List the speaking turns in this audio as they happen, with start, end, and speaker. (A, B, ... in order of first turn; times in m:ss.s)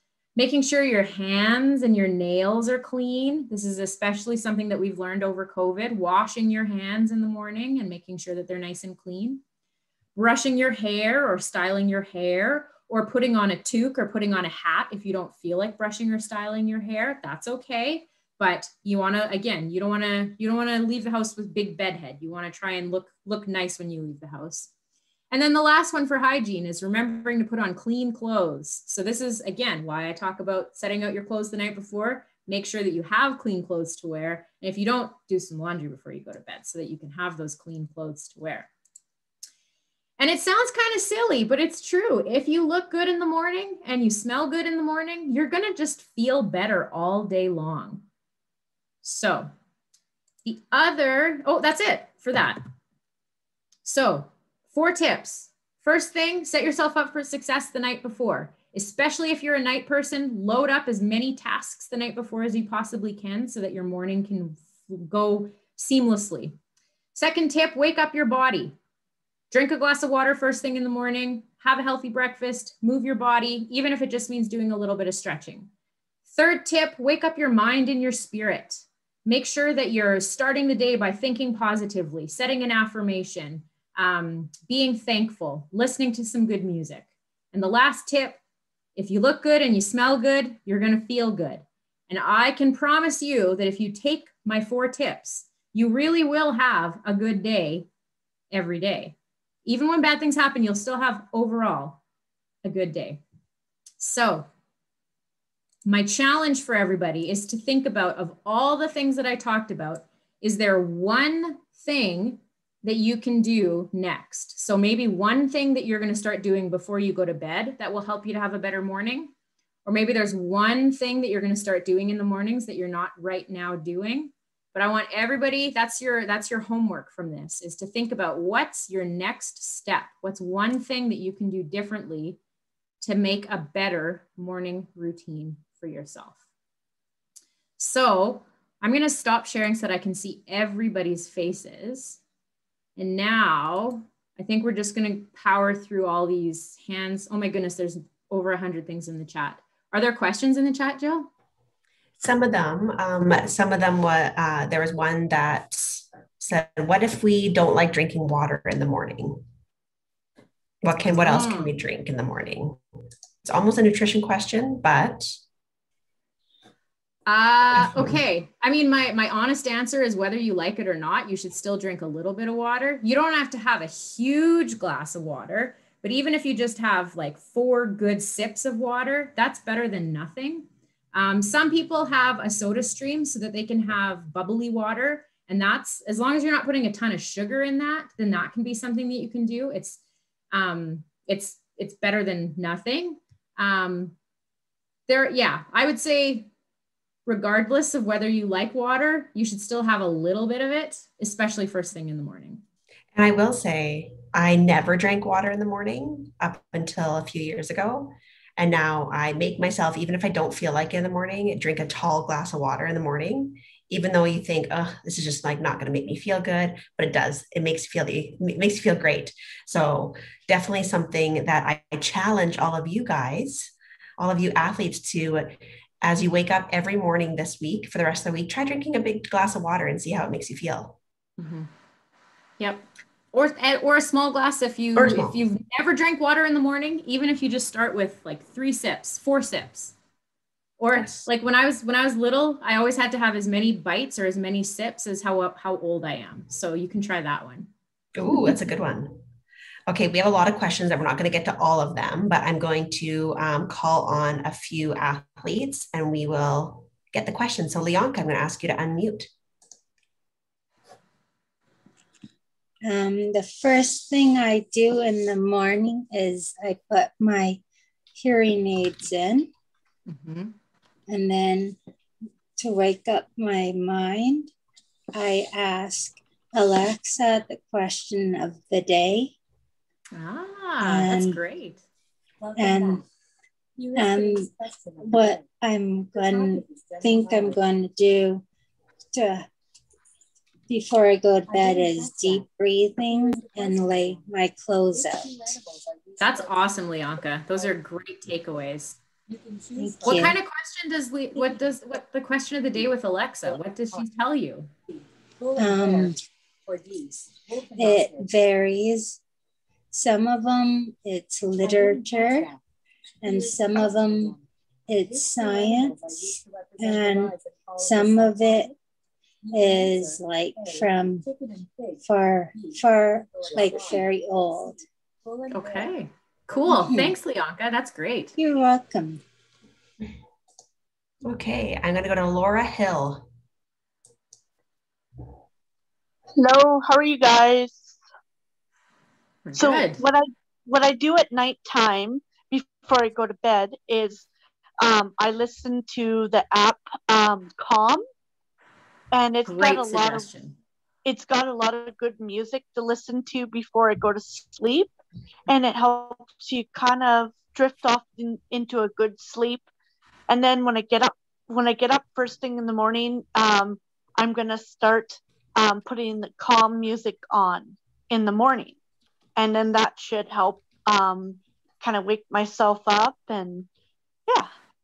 0:00.4-0:09.4 A
0:10.2-0:24.7 A
0:25.3-0:38.7 A
0:40.2-0:48.0 A
0:49.0-0:49.5 A
0:50.4-0:52.6 A
0:53.8-1:06.6 A
1:07.1-1:08.8 A
1:09.5-1:15.7 A
1:16.3-1:28.4 A
1:29.0-1:37.9 A
1:38.5-1:39.2 A
1:39.7-1:42.0 A
1:42.6-1:43.2 A
1:44.0-1:44.5 A
1:45.8-1:59.3 A
1:59.9-2:12.4 A
2:13.0-2:16.4 A
2:17.8-2:22.2 A
2:23.0-2:31.3 A
2:32.2-2:39.4 B
2:40.8-2:42.8 B
2:41.1-2:41.8 A
2:43.4-2:45.4 B
2:47.3-3:10.0 A
2:47.7-2:48.2 B
3:10.5-3:14.1 A
3:15.1-3:16.5 A
3:17.3-3:22.6 A
3:23.1-3:51.0 B
3:51.4-3:51.7 A
3:52.6-3:59.9 A
3:55.0-3:55.4 B
4:00.8-4:07.7 A
4:00.9-4:01.3 B
4:08.2-4:09.2 B
4:09.9-4:19.3 B
4:22.8-4:27.6 C
4:28.1-4:29.5 C
4:30.1-4:30.5 A
4:31.1-4:31.8 C
4:32.6-4:34.5 C
4:35.1-4:39.3 C
4:40.1-4:41.8 A
4:40.8-4:41.4 C
4:42.6-4:43.0 C
4:43.9-4:48.4 C
4:49.1-4:49.5 C
4:50.7-4:55.5 C
4:56.2-4:59.0 A
4:59.8-5:00.4 C
5:00.0-5:04.7 A
5:05.6-5:06.2 C
5:07.8-5:09.2 C
5:09.9-5:12.6 C
5:13.2-5:14.4 C
5:14.9-5:18.7 C
5:19.5-5:21.3 C
5:22.0-5:24.8 C
5:25.5-5:28.4 A
5:26.7-5:27.1 C
5:28.4-5:29.2 C
5:31.2-5:33.3 B
5:36.4-5:38.0 D
5:39.5-5:40.0 A
5:39.6-5:44.3 D
5:44.8-5:48.0 D
5:49.1-5:50.3 D
5:49.4-5:50.6 A
5:51.0-5:54.9 D
5:55.5-5:59.7 D
6:00.3-6:08.8 D
6:09.4-6:13.7 D